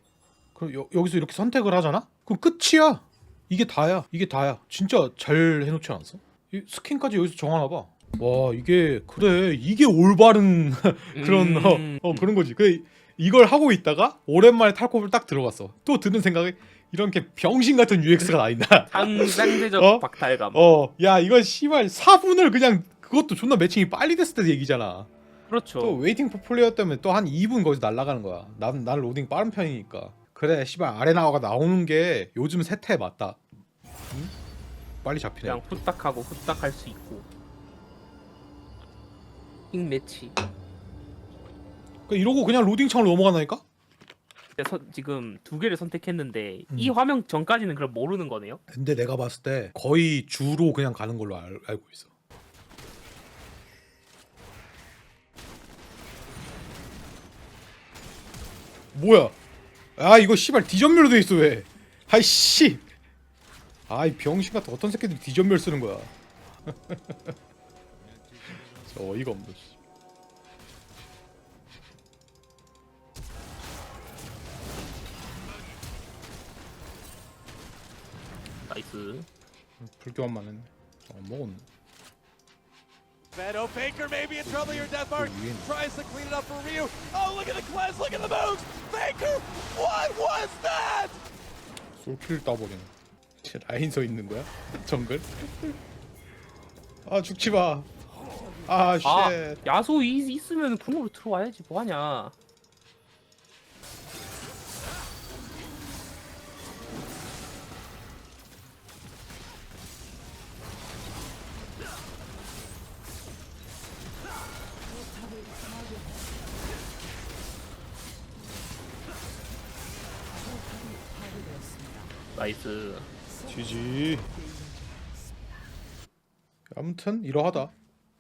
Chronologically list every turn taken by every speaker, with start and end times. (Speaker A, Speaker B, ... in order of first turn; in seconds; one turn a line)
Speaker A: 0.5-25.1
Speaker B: 11.1-12.3
Speaker B: 18.9-20.6
Speaker B: 25.5-26.0
Speaker A: 25.8-33.4
Speaker A: 35.0-35.8
Speaker B: 35.4-37.2
Speaker B: 39.7-40.4
Speaker A: 42.1-43.6
Speaker B: 44.6-48.6
Speaker A: 46.7-47.0
Speaker A: 48.7-52.1
Speaker A: 58.9-59.3
Speaker A: 60.0-62.8
Speaker A: 63.9-66.1
Speaker A: 66.7-67.3
Speaker A: 68.5-69.8
Speaker B: 78.7-79.2
Speaker A: 79.8-81.7
Speaker C: 83.3-91.2
Speaker A: 84.4-85.7
Speaker A: 92.0-92.9
Speaker A: 93.4-95.8
Speaker A: 97.0-97.9
Speaker A: 98.6-99.6
Speaker B: 99.0-102.3
Speaker B: 122.3-123.1
Speaker A: 123.4-124.3
Speaker A: 126.7-127.7